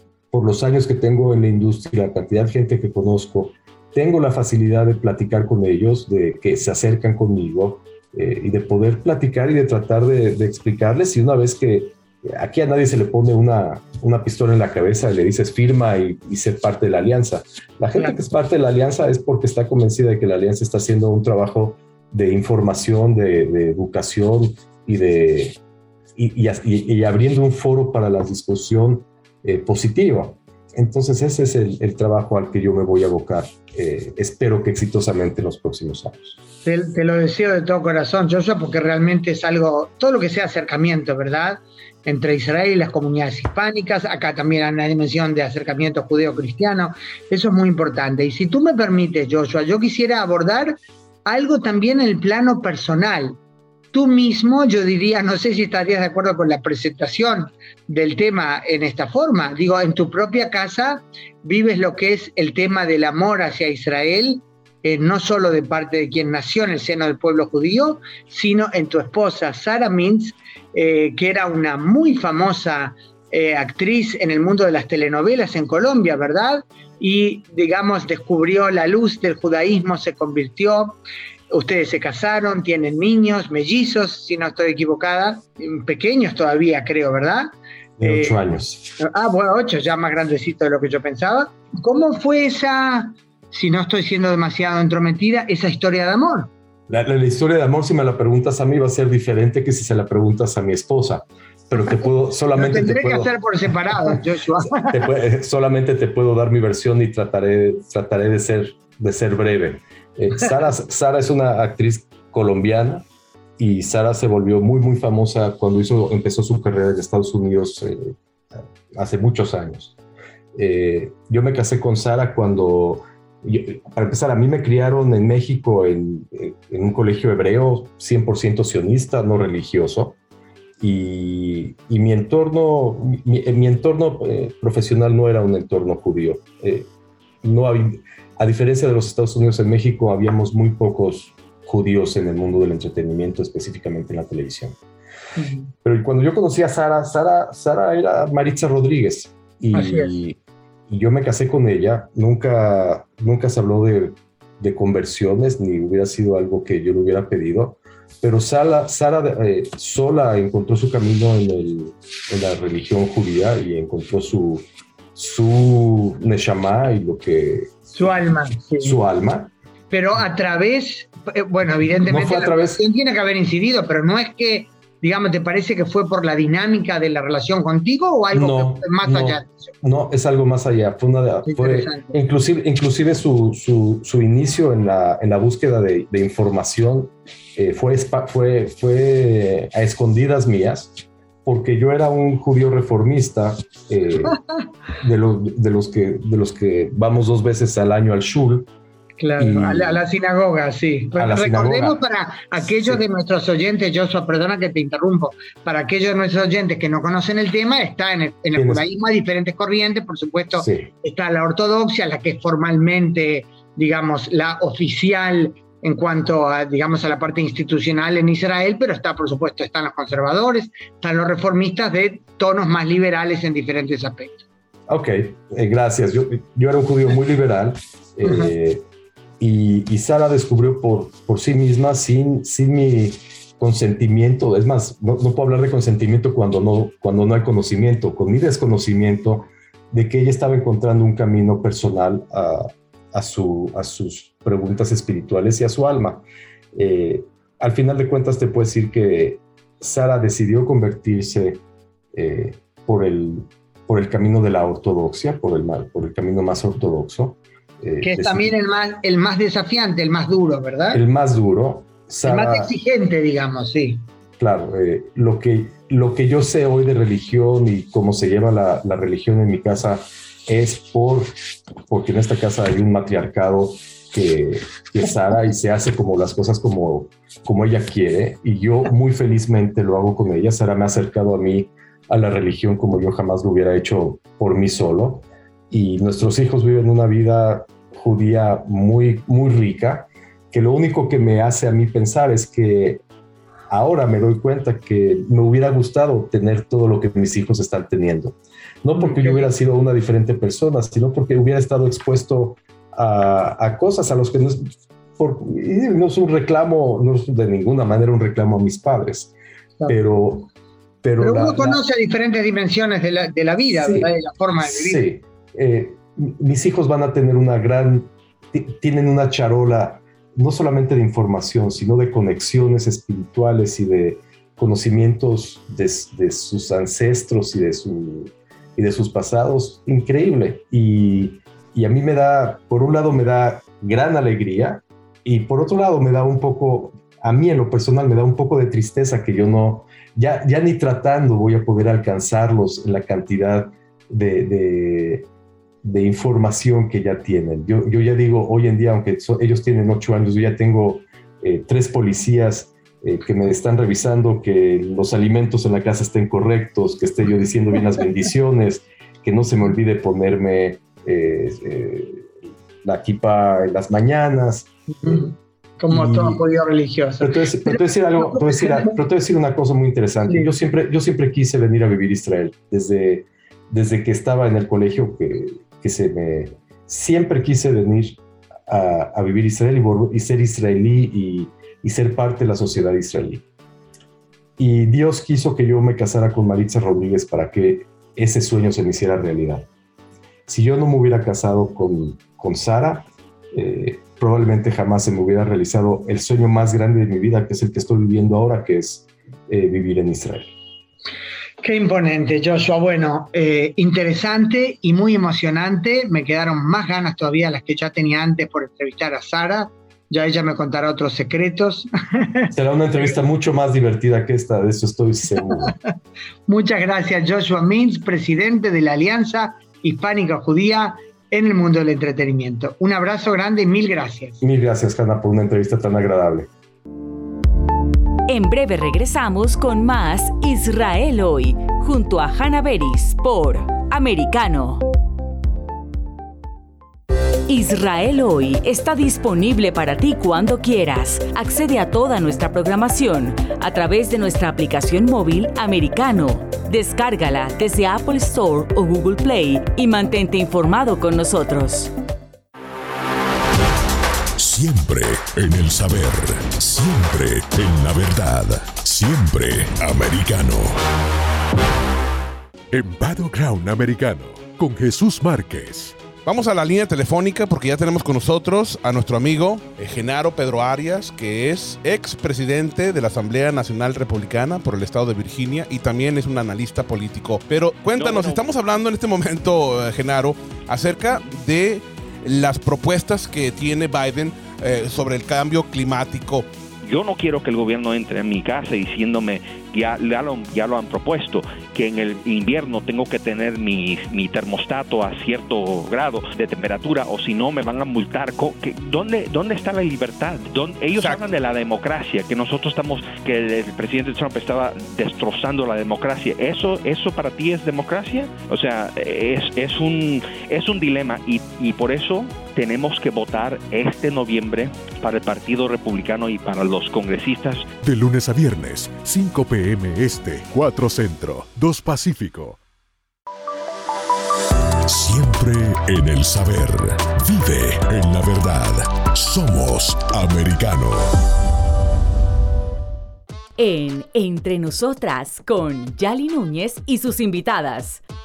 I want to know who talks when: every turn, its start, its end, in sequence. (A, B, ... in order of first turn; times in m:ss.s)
0:00.3-0:25.6 A
0:26.2-0:36.4 A
0:36.6-0:53.4 B
0:53.9-1:21.0 B
1:21.5-1:28.4 B
1:28.0-1:29.0 A
1:29.0-1:36.5 B
1:36.9-1:43.3 A
1:42.6-1:44.9 B
1:44.8-1:53.1 A
1:53.6-1:58.1 A
1:58.9-2:00.0 A
2:00.6-2:10.2 A
2:10.8-2:16.9 A
2:17.4-2:24.8 A
2:25.4-2:25.7 B
2:25.8-2:48.1 A
2:29.7-2:30.1 B
2:48.0-2:49.0 B
2:48.8-2:49.5 A
2:49.9-2:59.7 B
2:52.1-2:52.8 A
2:58.3-3:14.4 A
3:01.5-3:02.1 B
3:15.0-3:18.7 A
3:19.2-3:44.4 B
3:19.4-3:20.0 A
3:21.1-3:22.0 A
3:22.6-3:23.0 A
3:28.6-3:28.8 A
3:30.5-3:30.9 A
3:44.9-3:48.8 A
3:48.2-3:48.5 B
3:49.4-4:11.6 A
4:12.1-4:18.6 A
4:18.0-4:21.0 B
4:20.9-4:22.7 A
4:22.2-4:24.0 B
4:24.4-4:31.3 A
4:31.9-4:53.0 A
4:53.7-5:09.3 A
4:59.0-4:59.5 B
5:09.9-5:10.5 A
5:11.0-5:11.8 A
5:11.2-5:15.0 B
5:13.8-5:45.3 A
5:45.8-6:02.3 A
6:02.8-6:05.3 A
6:05.0-6:08.9 B
6:05.9-6:06.4 A
6:07.2-6:23.4 A
6:24.6-6:29.7 A
6:30.5-6:40.5 A
6:41.6-6:51.9 B
6:52.5-6:55.8 A
6:56.5-7:04.4 B
7:04.4-7:06.5 A
7:08.3-7:14.8 C
7:17.5-7:31.9 C
7:34.4-7:40.8 D
7:42.7-7:46.0 D
7:46.2-8:06.5 E
7:58.0-7:58.3 F
8:06.8-8:37.7 F
8:21.0-8:21.2 E
8:37.8-8:42.6 D
8:44.9-8:51.1 D
8:53.6-8:58.0 C